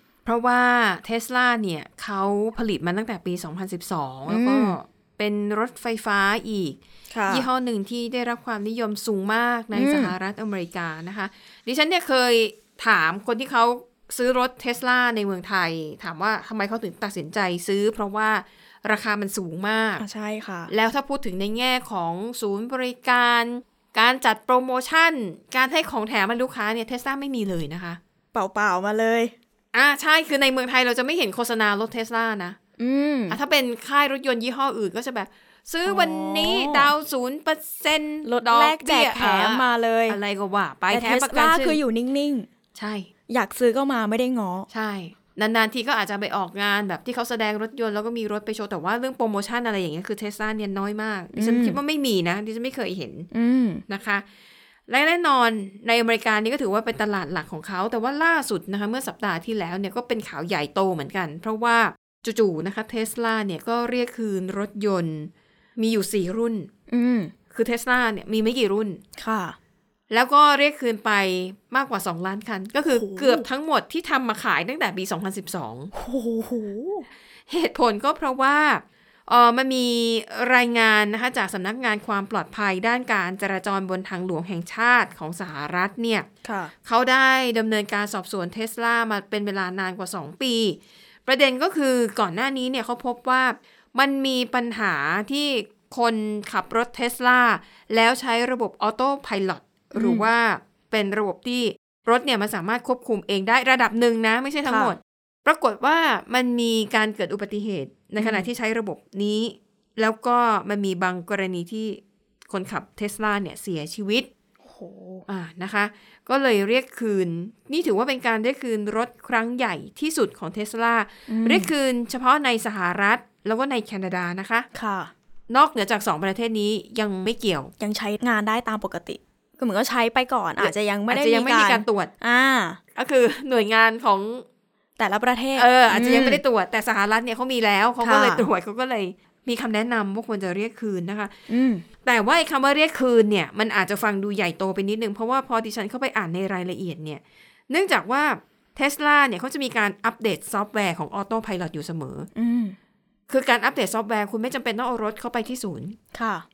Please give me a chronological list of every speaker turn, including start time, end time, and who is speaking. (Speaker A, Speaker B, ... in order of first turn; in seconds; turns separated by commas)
Speaker A: 0.3-20.0, Speaker B: 4.3-4.8, Speaker B: 7.1-7.5, Speaker B: 9.7-10.1, Speaker B: 20.0-20.7, Speaker A: 20.7-28.0, Speaker B: 28.3-29.4, Speaker A: 29.7-32.6, Speaker B: 32.8-33.4, Speaker A: 33.3-41.8, Speaker B: 35.9-36.9, Speaker B: 38.2-40.2, Speaker B: 40.9-42.5, Speaker A: 42.8-43.1, Speaker B: 43.3-44.7, Speaker A: 44.7-53.3, Speaker B: 51.3-51.8, Speaker B: 53.3-53.8, Speaker A: 53.9-54.2, Speaker A: 54.9-66.7, Speaker B: 66.9-67.3, Speaker A: 67.5-69.0, Speaker B: 69.2-69.6, Speaker A: 70.1-75.9, Speaker B: 72.9-73.5, Speaker B: 75.9-77.1, Speaker A: 77.5-86.3, Speaker B: 86.4-86.7, Speaker A: 86.8-114.3, Speaker B: 100.0-100.3, Speaker B: 104.7-105.0, Speaker B: 108.2-108.5, Speaker B: 114.6-115.3, Speaker A: 115.3-124.7, Speaker B: 121.3-121.7, Speaker B: 124.7-125.1, Speaker A: 125.5-127.7, Speaker B: 127.8-132.8, Speaker A: 130.6-132.1, Speaker A: 132.9-134.4, Speaker B: 135.0-136.4, Speaker A: 135.6-141.3, Speaker B: 138.0-138.5, Speaker B: 141.5-141.8, Speaker A: 142.0-152.3, Speaker B: 152.3-152.8, Speaker A: 153.3-156.0, Speaker B: 156.1-156.5